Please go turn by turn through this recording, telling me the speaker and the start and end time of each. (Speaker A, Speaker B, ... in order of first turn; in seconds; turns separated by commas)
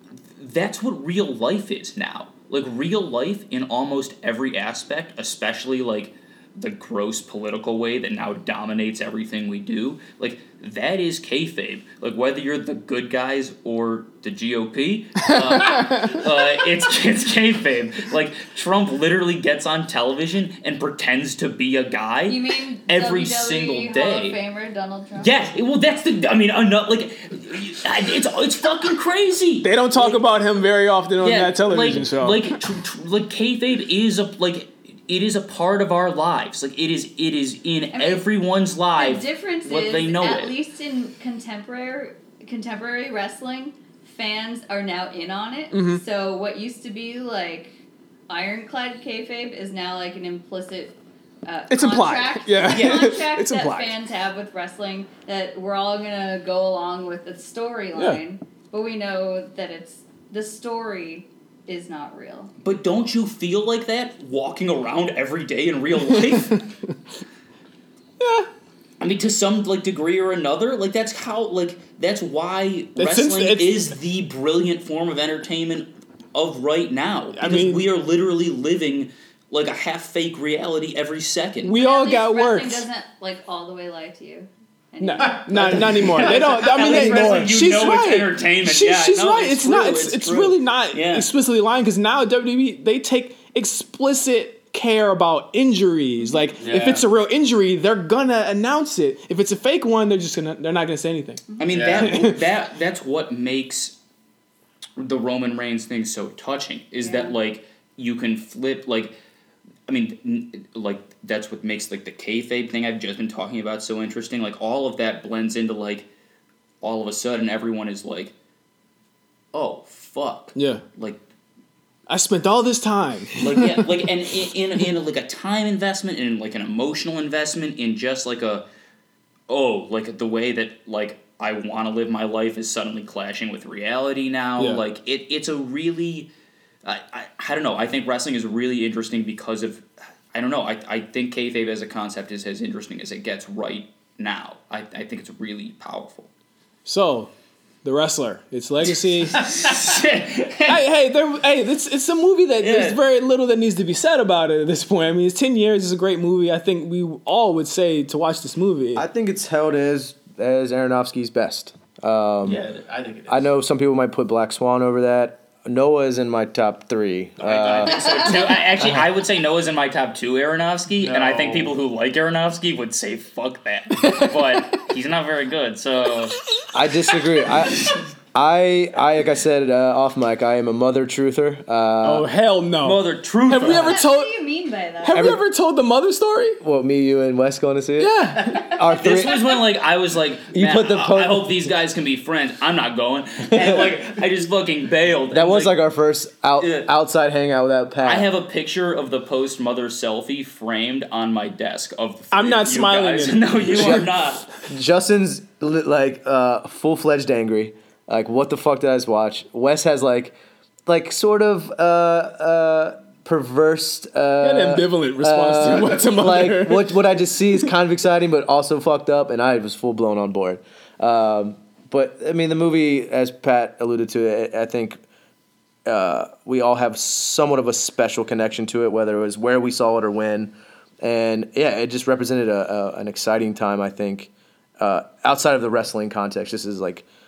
Speaker A: 0.4-24.4, Speaker B: 15.3-16.3, Speaker C: 22.3-25.4, Speaker A: 25.2-30.2, Speaker B: 29.6-32.6, Speaker A: 31.2-40.5, Speaker C: 37.9-38.3, Speaker C: 39.0-62.5, Speaker B: 45.7-46.0, Speaker B: 51.7-54.0, Speaker A: 52.7-53.1, Speaker B: 58.0-58.2, Speaker A: 62.6-66.6, Speaker B: 68.2-68.5, Speaker A: 69.0-81.7, Speaker B: 73.0-73.9, Speaker B: 77.4-77.9, Speaker B: 81.6-82.9, Speaker C: 81.7-85.7, Speaker B: 85.0-101.4, Speaker D: 85.3-87.5, Speaker A: 85.7-91.3, Speaker D: 96.6-97.0, Speaker A: 101.6-103.9, Speaker D: 101.7-102.1, Speaker B: 101.9-102.4, Speaker A: 105.0-109.2, Speaker C: 107.0-107.3, Speaker A: 109.9-116.1, Speaker A: 116.8-118.3, Speaker A: 119.5-121.2, Speaker B: 120.6-120.8, Speaker B: 122.1-123.8, Speaker A: 123.4-128.7, Speaker A: 129.5-136.3, Speaker B: 134.6-134.8, Speaker A: 136.8-146.3, Speaker B: 146.8-147.3, Speaker B: 147.8-149.6, Speaker A: 149.3-150.8, Speaker B: 150.7-159.0, Speaker A: 152.6-153.0, Speaker E: 158.9-162.6, Speaker D: 162.4-163.4, Speaker E: 163.3-168.0, Speaker D: 167.4-168.6, Speaker A: 167.8-176.4, Speaker E: 168.8-169.1, Speaker D: 171.0-171.7, Speaker B: 174.0-174.6, Speaker E: 176.7-182.3, Speaker B: 182.0-184.3, Speaker A: 182.8-184.0, Speaker C: 183.6-185.3, Speaker B: 185.0-186.6, Speaker E: 185.1-185.4, Speaker E: 186.6-189.6, Speaker B: 188.0-188.8, Speaker A: 188.9-195.8, Speaker E: 190.5-191.7, Speaker E: 193.5-194.1, Speaker E: 195.3-198.3, Speaker A: 196.6-196.9, Speaker A: 198.0-204.5, Speaker B: 202.3-204.1, Speaker E: 203.7-204.0, Speaker E: 204.7-225.0, Speaker B: 214.4-216.9, Speaker E: 225.9-237.1